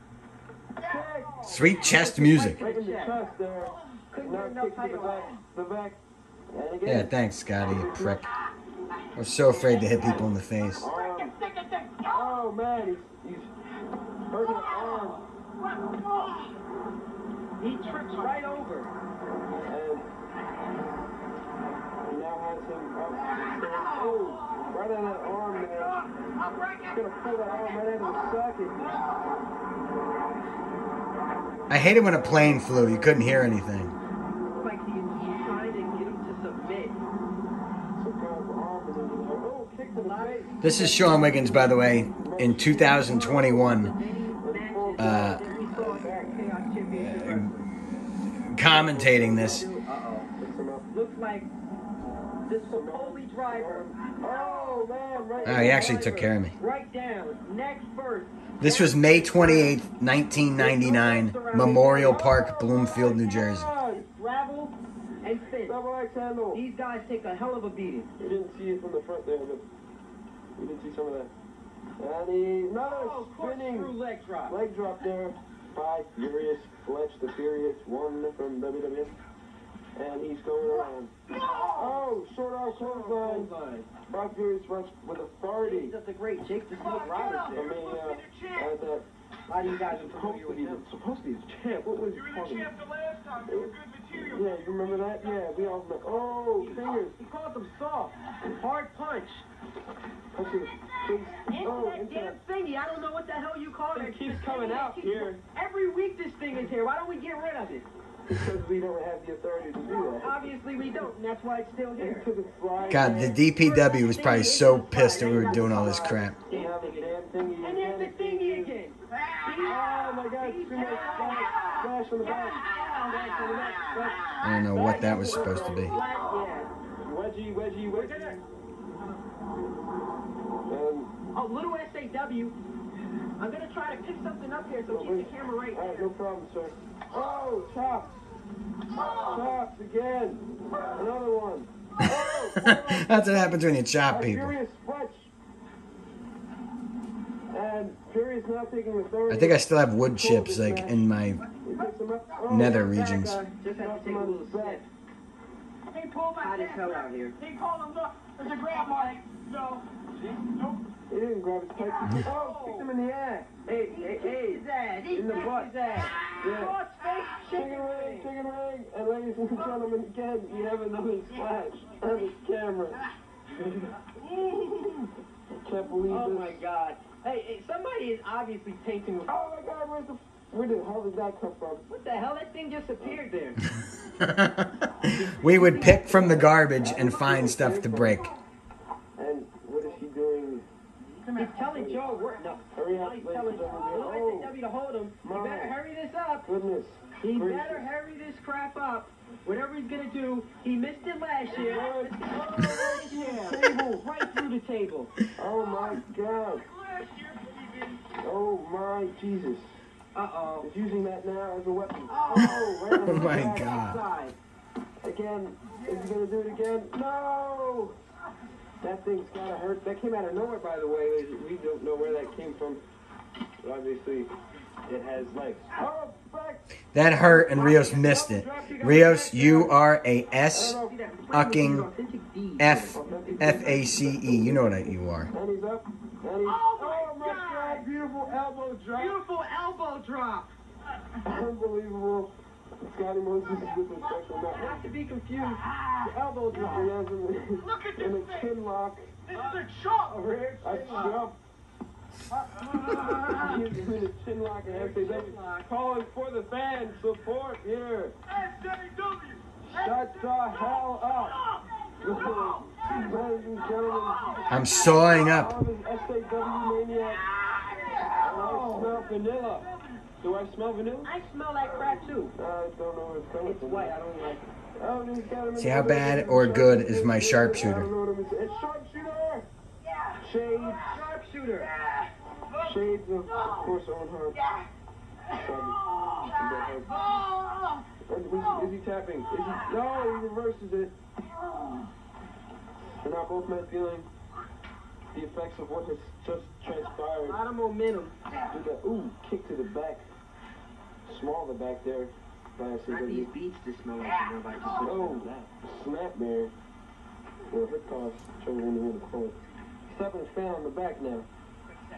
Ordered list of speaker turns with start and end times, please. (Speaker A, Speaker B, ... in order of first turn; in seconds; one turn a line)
Speaker A: 0.8-1.5
Speaker B: 1.4-3.3
Speaker C: 1.4-2.6
Speaker A: 2.6-6.0
Speaker B: 4.1-5.4
Speaker A: 6.5-8.3
Speaker C: 6.9-8.3
Speaker C: 9.2-10.9
Speaker A: 10.8-11.4
Speaker D: 11.0-12.2
Speaker A: 12.0-13.5
Speaker A: 14.3-15.3
Speaker D: 14.6-15.1
Speaker D: 15.7-16.5
Speaker B: 17.6-18.9
Speaker A: 19.6-20.1
Speaker A: 22.1-26.0
Speaker D: 23.4-24.0
Speaker D: 26.2-26.9
Speaker A: 26.9-28.9
Speaker D: 27.5-27.8
Speaker C: 31.7-33.9
Speaker A: 32.0-33.3
Speaker B: 34.5-37.0
Speaker A: 38.0-40.5
Speaker B: 40.0-41.7
Speaker C: 40.6-43.9
Speaker A: 42.1-43.2
Speaker B: 42.9-47.7
Speaker A: 44.4-46.4
Speaker C: 45.0-45.4
Speaker C: 46.9-47.5
Speaker C: 48.5-49.7
Speaker A: 48.6-49.3
Speaker B: 48.9-50.3
Speaker A: 50.4-50.9
Speaker B: 50.9-51.5
Speaker B: 52.5-59.8
Speaker A: 52.6-56.1
Speaker C: 55.5-56.5
Speaker C: 58.6-63.7
Speaker B: 60.5-62.2
Speaker A: 62.0-64.0
Speaker B: 64.0-65.8
Speaker A: 65.7-66.6
Speaker B: 66.5-68.1
Speaker A: 68.2-69.6
Speaker A: 70.6-71.3
Speaker A: 72.0-73.9
Speaker B: 72.8-74.5
Speaker A: 74.5-79.2
Speaker A: 80.0-81.1
Speaker B: 81.3-82.0
Speaker A: 81.7-83.5
Speaker B: 82.7-83.9
Speaker A: 84.1-86.0
Speaker B: 85.6-88.0
Speaker D: 86.8-88.7
Speaker A: 87.5-89.1
Speaker B: 89.5-90.9
Speaker A: 89.8-92.7
Speaker D: 92.2-95.5
Speaker A: 93.5-97.2
Speaker B: 96.0-99.4
Speaker A: 100.3-102.4
Speaker B: 101.5-107.9
Speaker A: 103.9-105.4
Speaker A: 108.3-110.4
Speaker B: 110.0-126.7
Speaker A: 112.0-113.4
Speaker C: 112.9-116.4
Speaker A: 115.2-118.8
Speaker D: 119.2-119.7
Speaker A: 119.6-124.2
Speaker D: 120.8-121.8
Speaker D: 122.7-123.3
Speaker C: 124.4-126.0
Speaker A: 124.8-126.1
Speaker A: 127.0-128.3
Speaker B: 127.9-128.4
Speaker A: 130.7-131.1
Speaker B: 131.3-132.6
Speaker B: 133.4-136.1
Speaker A: 134.9-138.1
Speaker A: 138.9-145.3
Speaker B: 139.0-139.4
Speaker C: 142.0-144.5
Speaker A: 147.5-151.1
Speaker C: 149.3-151.4
Speaker A: 151.6-152.9
Speaker C: 152.5-153.4
Speaker B: 152.6-154.9
Speaker A: 153.6-154.8
Speaker D: 155.9-160.8
Speaker B: 156.3-157.4
Speaker B: 158.7-159.2
Speaker A: 161.1-166.8
Speaker B: 162.1-162.9
Speaker B: 163.7-168.3
Speaker A: 167.5-173.1
Speaker B: 173.7-175.1
Speaker A: 175.6-176.6
Speaker B: 176.1-179.3
Speaker A: 179.3-181.9
Speaker B: 181.9-183.6
Speaker C: 184.2-188.3
Speaker B: 185.1-186.6
Speaker A: 186.8-188.3
Speaker A: 189.2-190.7
Speaker D: 191.2-191.6
Speaker B: 191.4-196.5
Speaker A: 191.7-192.1
Speaker D: 192.2-192.6
Speaker A: 192.7-194.5
Speaker A: 195.2-195.8
Speaker A: 196.4-197.9
Speaker B: 197.2-205.1
Speaker A: 201.5-204.1
Speaker A: 205.3-206.7
Speaker D: 206.7-208.0
Speaker A: 208.2-209.6
Speaker B: 210.2-210.7
Speaker A: 210.6-213.9
Speaker B: 212.1-214.3
Speaker C: 213.1-214.0
Speaker A: 215.0-217.9
Speaker A: 218.8-222.8
Speaker A: 223.6-224.3
Speaker A: 224.9-226.7
Speaker C: 226.9-230.8
Speaker A: 227.2-228.7
Speaker B: 227.6-229.8
Speaker A: 230.5-230.9
Speaker B: 230.6-233.2
Speaker C: 231.3-231.9
Speaker C: 232.6-235.3
Speaker A: 232.9-239.2
Speaker B: 236.4-237.8
Speaker B: 239.0-240.5
Speaker A: 241.2-244.8
Speaker D: 243.6-244.8
Speaker B: 244.5-246.9
Speaker A: 246.5-249.1
Speaker D: 247.7-248.5
Speaker D: 249.3-251.2
Speaker B: 249.3-251.2
Speaker A: 250.6-251.4
Speaker B: 252.3-253.9
Speaker D: 252.7-253.4
Speaker A: 253.2-258.1
Speaker B: 254.6-255.7
Speaker D: 258.4-259.4
Speaker A: 259.6-261.4
Speaker A: 262.0-264.2
Speaker D: 262.1-263.0
Speaker B: 262.1-264.9
Speaker D: 263.8-264.7
Speaker C: 264.5-265.6
Speaker A: 264.9-267.3
Speaker D: 267.4-268.6
Speaker B: 267.9-268.9
Speaker A: 268.2-269.7
Speaker A: 270.2-274.0
Speaker B: 271.0-272.3
Speaker B: 273.4-274.4
Speaker A: 274.8-279.5
Speaker C: 275.6-277.9
Speaker D: 279.9-280.9
Speaker A: 280.2-281.0
Speaker B: 280.9-281.7
Speaker D: 281.6-282.7
Speaker A: 282.6-284.4
Speaker A: 285.3-287.0
Speaker D: 285.4-287.8
Speaker B: 286.9-287.2
Speaker A: 288.1-290.9
Speaker A: 293.0-294.1
Speaker A: 295.1-297.4
Speaker B: 297.2-298.2
Speaker A: 298.5-300.1
Speaker A: 301.1-303.3
Speaker B: 302.9-305.5
Speaker A: 304.8-306.5
Speaker A: 307.5-309.4
Speaker A: 309.9-311.3